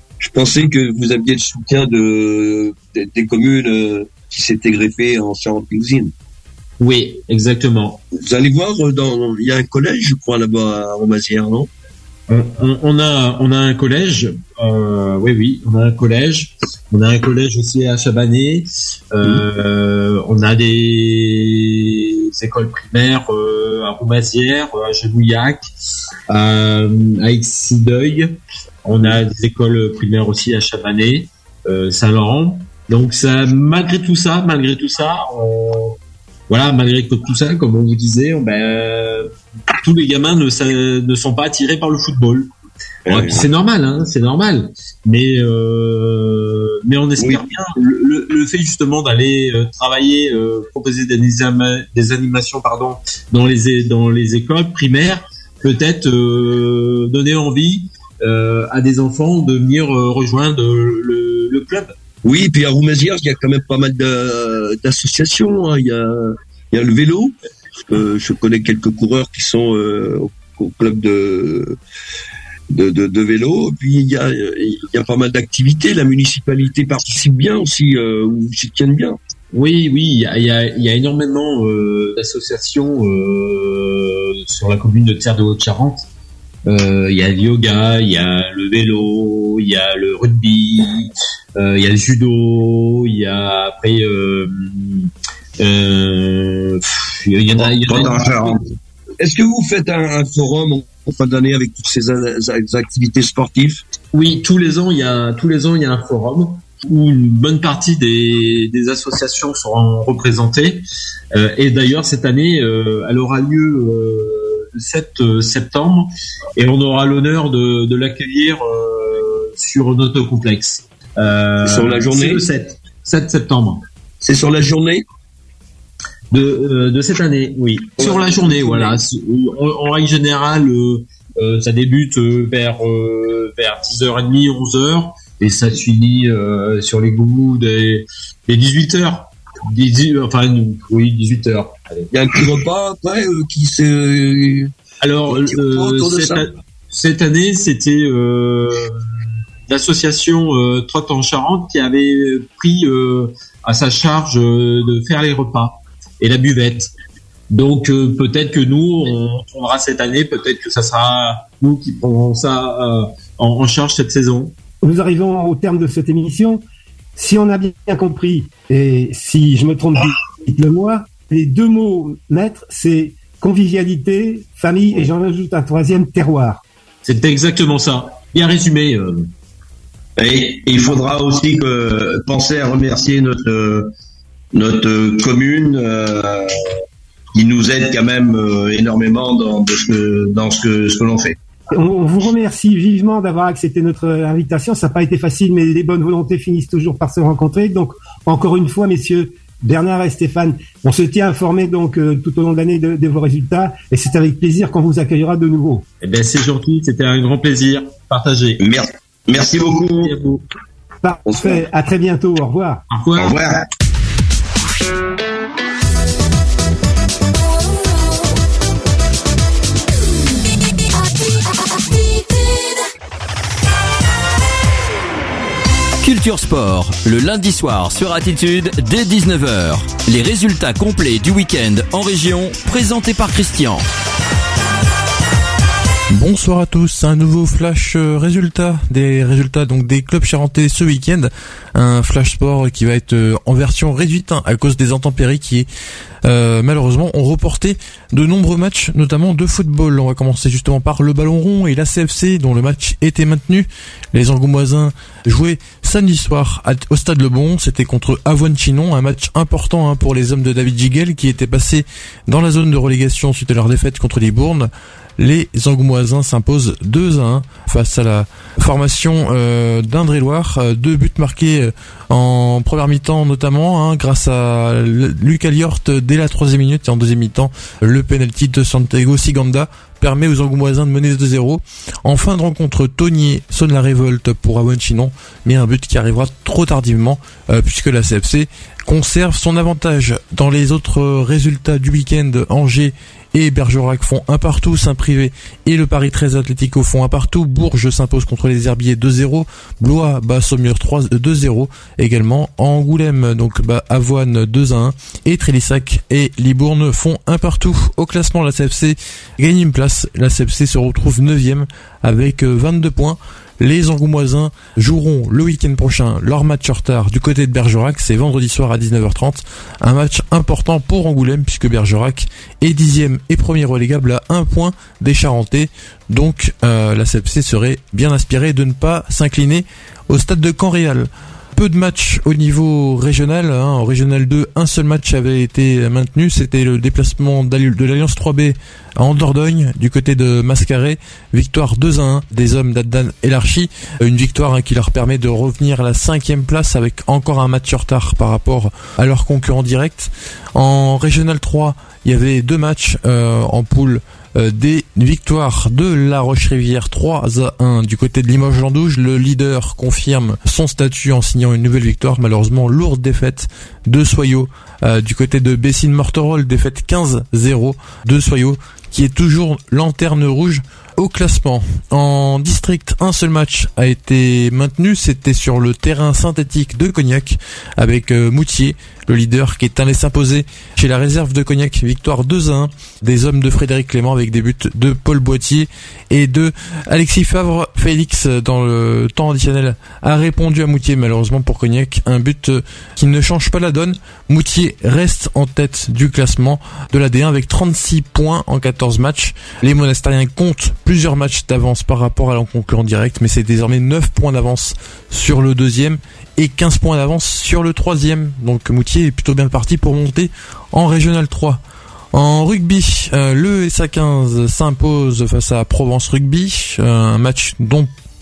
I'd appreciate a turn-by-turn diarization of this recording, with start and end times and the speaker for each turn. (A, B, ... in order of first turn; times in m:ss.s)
0:00.2-0:06.1 A
0:06.8-0:08.0 B
0:08.1-0:11.7 A
0:12.3-0:25.7 B
0:26.3-0:36.0 B
0:36.5-0:42.5 B
0:43.0-0:43.4 A
0:43.1-1:01.9 B
0:47.2-0:47.4 A
1:02.2-1:07.4 A
1:07.9-1:11.8 A
1:12.7-1:19.2 A
1:19.5-1:26.0 B
1:26.7-1:38.6 B
1:37.8-1:38.7 C
1:39.2-1:43.8 A
1:44.1-2:03.8 B
2:01.6-2:02.4 A
2:04.2-2:05.0 A
2:06.3-2:22.1 B
2:08.0-2:09.0 A
2:22.1-2:24.7 A
2:25.0-2:29.0 B
2:25.3-2:26.4 A
2:29.7-2:36.9 B
2:37.5-2:44.6 B
2:44.8-2:46.6 D
2:47.2-2:56.6 D
2:57.0-2:59.3 B
3:00.2-3:03.9 C
3:04.5-3:06.7 C
3:07.3-3:11.4 C
3:11.7-3:25.8 D
3:26.0-3:28.6 B
3:28.6-3:30.2 C
3:29.9-3:30.4 B
3:31.0-3:32.8 D
3:31.3-3:31.6 A
3:32.9-3:33.3 B
3:33.2-3:33.6 C
3:46.0-3:53.8 E
3:56.1-4:05.7 F
4:06.2-6:51.6 F
6:52.1-6:57.9 F